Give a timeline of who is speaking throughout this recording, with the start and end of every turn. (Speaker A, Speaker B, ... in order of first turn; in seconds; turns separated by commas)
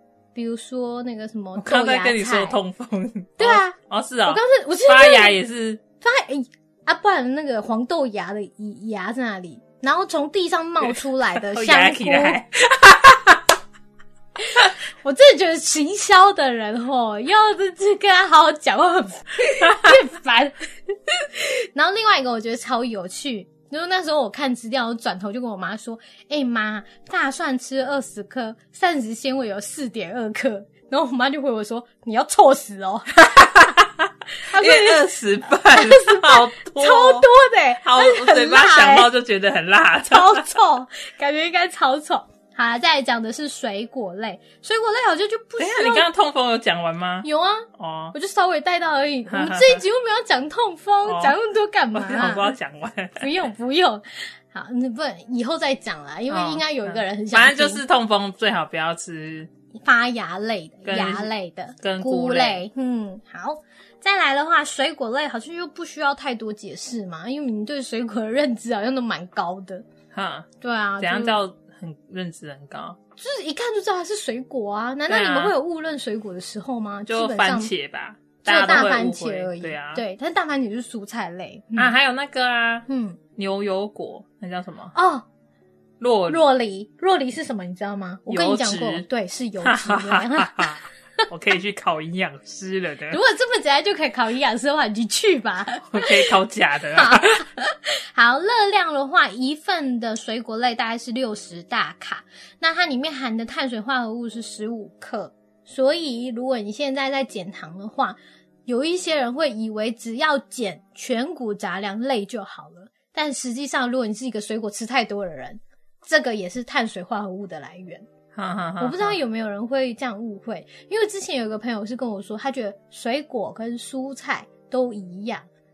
Speaker A: 0.3-2.6, Speaker B: 1.6-5.8, Speaker A: 3.4-5.4, Speaker A: 6.0-12.4, Speaker B: 11.3-13.5, Speaker A: 14.4-33.4, Speaker B: 19.7-20.0, Speaker B: 33.2-37.3, Speaker A: 34.5-39.1, Speaker B: 37.8-40.5, Speaker A: 40.0-46.0, Speaker B: 45.6-48.1, Speaker A: 47.2-52.5, Speaker B: 49.3-49.8, Speaker B: 51.0-51.3, Speaker B: 51.9-53.3, Speaker A: 53.2-57.8, Speaker B: 56.3-59.5, Speaker A: 59.7-69.8, Speaker B: 60.9-61.3, Speaker B: 61.8-62.6, Speaker B: 70.1-70.5, Speaker A: 70.6-71.4, Speaker B: 71.0-73.0, Speaker A: 73.2-77.7, Speaker B: 75.1-75.5, Speaker B: 77.1-80.0, Speaker A: 78.4-81.9, Speaker B: 81.8-84.9, Speaker A: 82.9-83.2, Speaker A: 84.9-85.2, Speaker B: 86.0-86.4, Speaker A: 86.3-90.8, Speaker B: 88.3-89.0, Speaker B: 89.6-93.2, Speaker A: 93.1-96.3, Speaker B: 95.9-97.4, Speaker A: 96.9-118.1, Speaker B: 118.3-119.2, Speaker A: 118.8-125.5